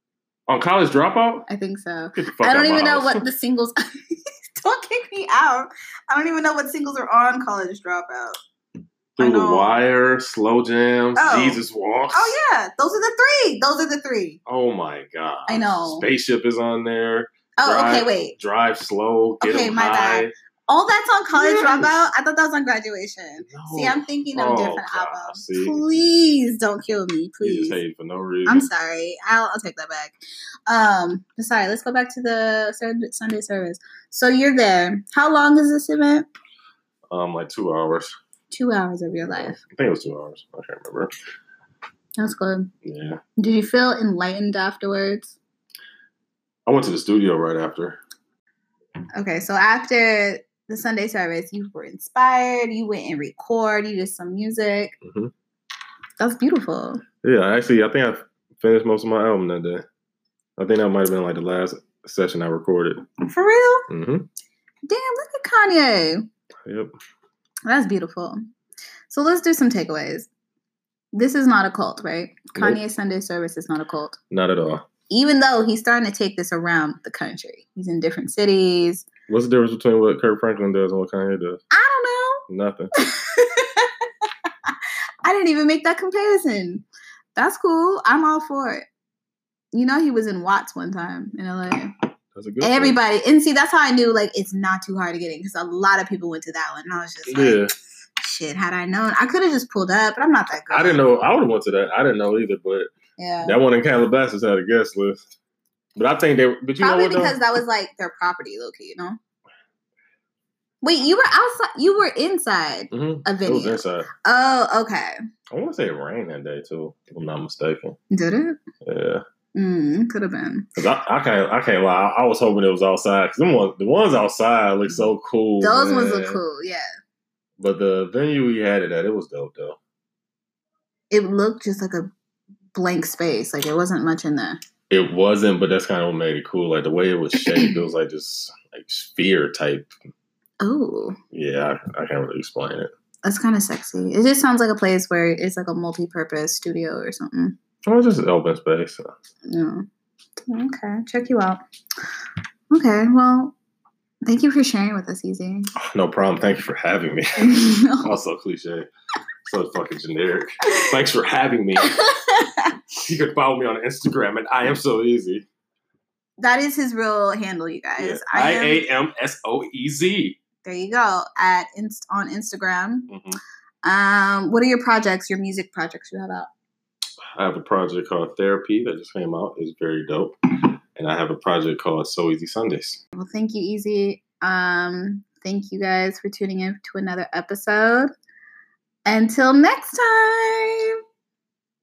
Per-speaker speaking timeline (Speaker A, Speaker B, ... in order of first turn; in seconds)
Speaker A: 0.5-1.4, 2.1-3.2, 9.2-12.4, 14.4-20.3, 21.3-21.9, 23.4-25.8, 27.4-28.7, 37.1-38.1, 39.3-41.1, 42.8-43.2, 46.6-48.0, 55.0-55.3, 57.2-59.8, 60.6-63.0, 63.9-64.3, 66.7-66.9, 74.3-74.8, 79.3-81.6, 82.5-82.9, 92.3-93.0, 97.3-97.7, 100.7-102.9, 103.4-105.2, 106.0-107.4, 112.9-114.1, 115.5-118.0, 118.8-119.2, 120.8-126.4, 127.6-129.8, 134.9-139.9, 141.3-142.9, 147.8-149.1, 155.8-158.9, 159.4-161.9, 163.0-165.4, 168.0-170.3, 173.1-173.4, 177.3-180.4, 180.9-183.0
Speaker B: 1.5-3.7, 4.6-8.4, 9.2-9.8, 11.2-14.4, 15.5-16.1, 17.6-18.4, 19.4-27.8, 28.4-30.1, 30.7-36.3, 38.5-39.6, 42.2-42.7, 43.4-45.4, 49.1-54.9, 56.2-57.0, 63.2-63.9, 64.8-66.2, 67.7-68.4, 69.1-70.3, 71.1-74.2, 75.1-79.0, 81.7-82.4, 83.0-86.8, 87.3-88.8, 89.7-91.9, 92.6-97.6, 98.2-101.0, 103.2-103.6, 106.8-109.2, 110.8-115.1, 118.1-118.6, 119.5-120.7, 125.6-126.8, 131.1-132.1, 132.7-134.6, 137.4-137.8, 140.6-141.2, 143.2-147.6, 149.4-149.8, 150.4-151.6, 152.7-153.5, 154.2-155.7, 157.4-158.1, 161.8-162.8, 166.4-168.8, 170.6-173.1, 173.8-176.5, 183.1-188.1, 189.1-190.9